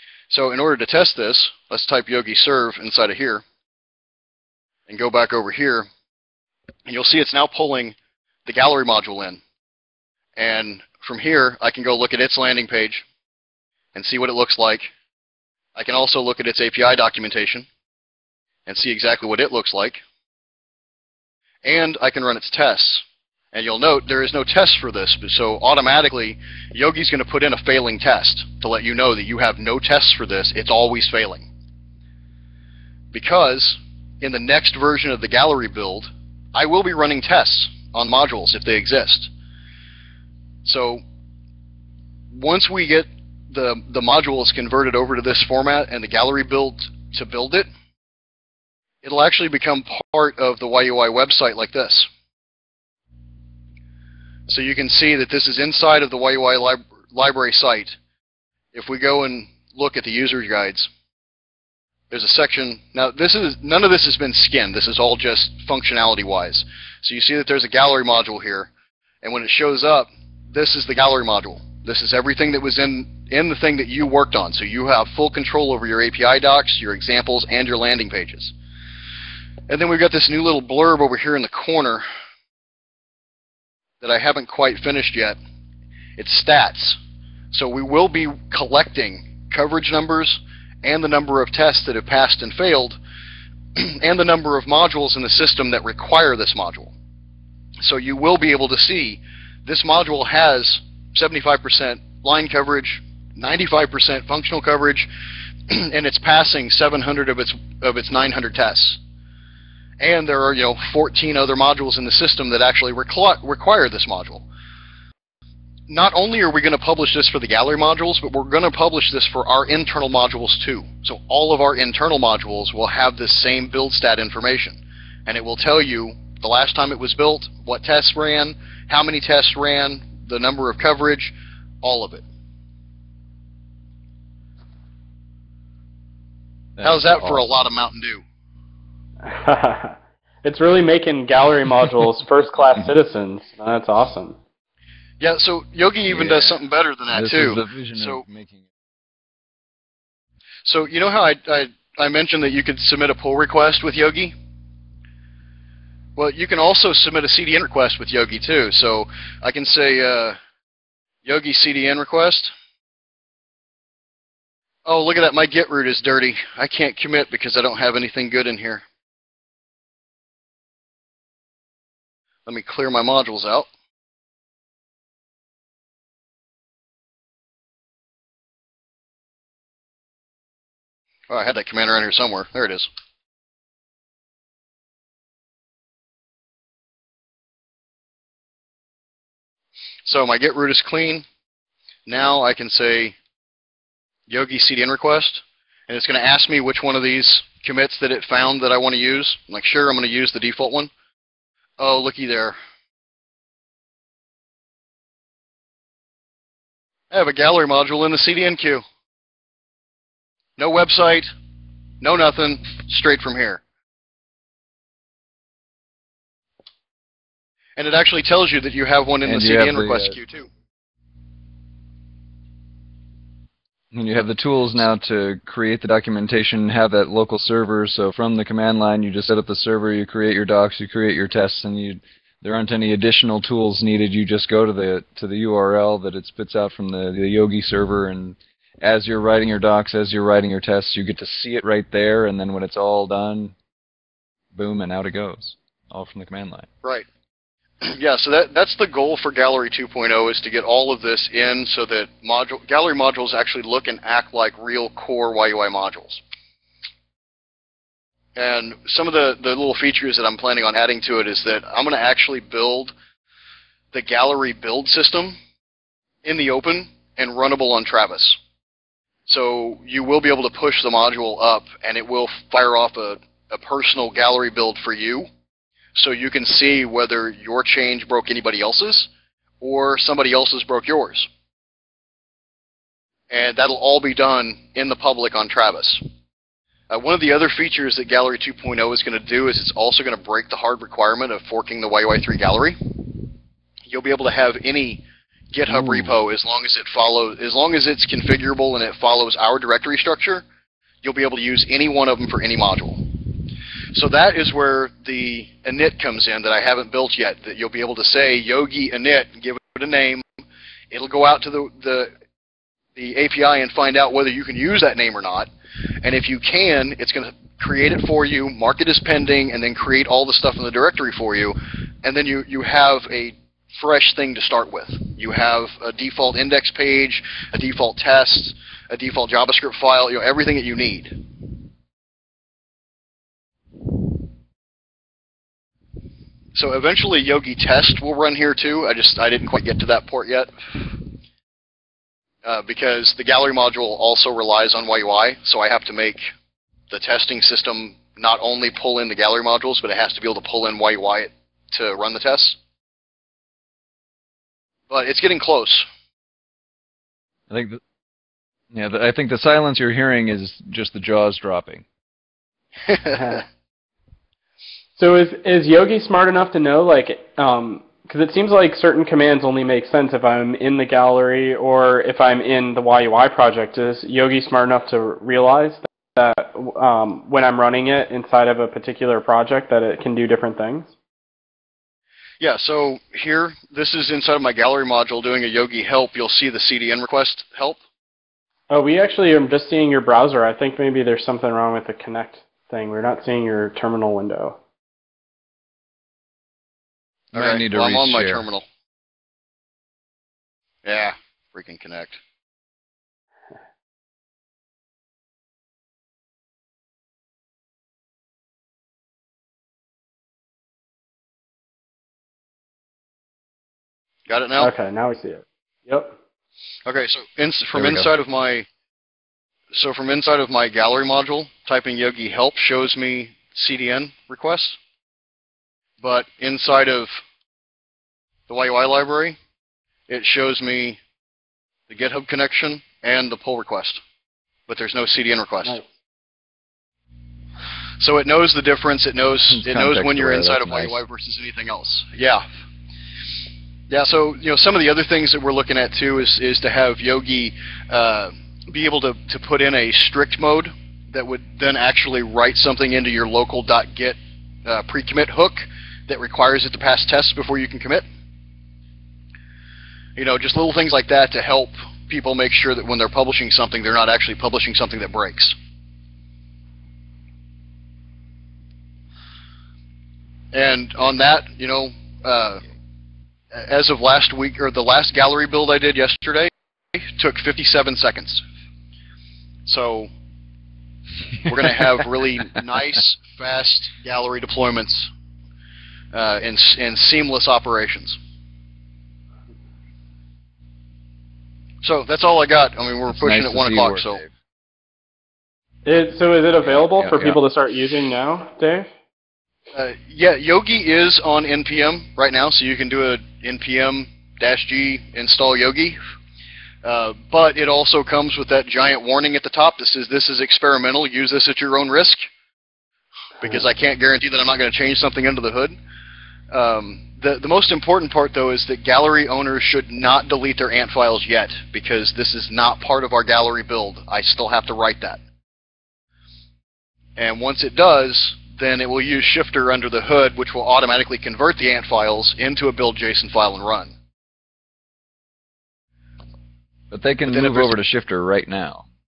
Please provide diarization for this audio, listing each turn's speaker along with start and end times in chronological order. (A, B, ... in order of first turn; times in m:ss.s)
0:00.3-0:03.4 A
0:04.9-0:05.9 A
0:06.8-0:09.4 A
0:10.4-0:13.0 A
0:13.9-0:14.9 A
0:15.7-0:17.7 A
0:18.6-0:20.0 A
0:21.6-0:31.5 A
0:33.1-0:39.3 A
0:40.6-0:41.0 A
0:42.3-0:47.7 A
0:49.0-0:52.1 A
0:54.5-0:58.0 A
0:58.7-1:00.9 A
1:02.1-1:08.7 A
1:09.2-1:18.5 A
1:19.7-1:22.0 A
1:24.0-1:25.4 A
1:26.2-1:27.0 A
1:27.5-1:33.0 A
1:33.7-1:36.9 A
1:37.8-1:45.1 A
1:45.7-1:49.0 A
1:50.0-1:54.5 A
1:55.9-2:12.2 A
2:16.8-2:17.6 B
2:16.8-2:18.2 A
2:19.2-2:24.4 C
2:25.2-2:28.2 A
2:26.1-2:26.6 B
2:27.1-2:28.6 B
2:30.6-2:34.3 A
2:36.2-2:40.4 A
2:41.2-2:42.5 A
2:44.8-2:48.8 A
2:52.4-2:53.7 A
3:01.3-3:02.9 A
3:10.0-3:11.2 A
3:12.0-3:13.1 A
3:14.3-3:20.9 A
3:21.8-3:22.6 A
3:27.1-3:28.8 A
3:30.6-3:31.3 A
3:32.0-3:33.6 A
3:37.8-3:40.5 A
3:39.2-3:40.2 B
3:43.9-4:03.5 B
4:04.5-4:06.7 B
4:07.8-4:16.2 A
4:18.4-4:22.9 A
4:23.9-4:25.4 A
4:26.2-4:28.4 A
4:29.2-4:35.3 A
4:35.9-4:39.1 A
4:39.6-4:41.3 A
4:43.3-4:46.0 A
4:46.9-4:53.0 A
4:53.9-5:00.4 A
4:55.8-4:56.1 B
5:01.0-5:10.2 A
5:10.9-5:12.1 A
5:12.9-5:15.5 A
5:16.0-5:31.2 A
5:36.5-5:41.0 A
5:42.4-5:46.3 A
5:46.9-5:52.6 A
5:54.9-5:55.9 A
5:57.5-5:57.8 B
5:58.7-6:01.8 B
6:02.9-6:03.3 A
6:03.1-6:03.4 C
6:05.0-6:20.9 C
6:22.4-6:27.8 A
6:28.7-6:34.6 C
6:37.3-6:38.6 A
6:37.3-6:38.4 B
6:40.8-6:42.2 A
6:54.3-6:54.7 A
6:54.6-6:56.2 C
6:56.8-6:58.7 A
6:57.7-6:58.1 B
6:59.7-7:04.8 A
7:06.0-7:07.1 A
7:08.5-7:09.4 A
7:10.1-7:11.0 A
7:11.9-7:14.0 A
7:14.7-7:15.8 A
7:18.0-7:22.4 A
7:19.5-7:21.0 B
7:23.9-7:38.0 A
7:40.2-7:45.5 A
7:50.5-7:52.6 A
7:53.5-7:58.4 A
7:59.6-8:00.1 A
8:01.4-8:05.1 A
8:01.6-8:02.0 B
8:06.1-8:08.2 A
8:11.8-8:14.2 A
8:13.1-8:14.3 B
8:15.8-8:18.9 C
8:16.6-8:17.4 B
8:19.7-8:26.0 A
8:26.8-8:32.2 A
8:33.4-8:35.8 A
8:36.5-8:45.2 A
8:47.2-8:53.9 A
8:56.9-8:58.8 B
8:57.2-8:57.7 A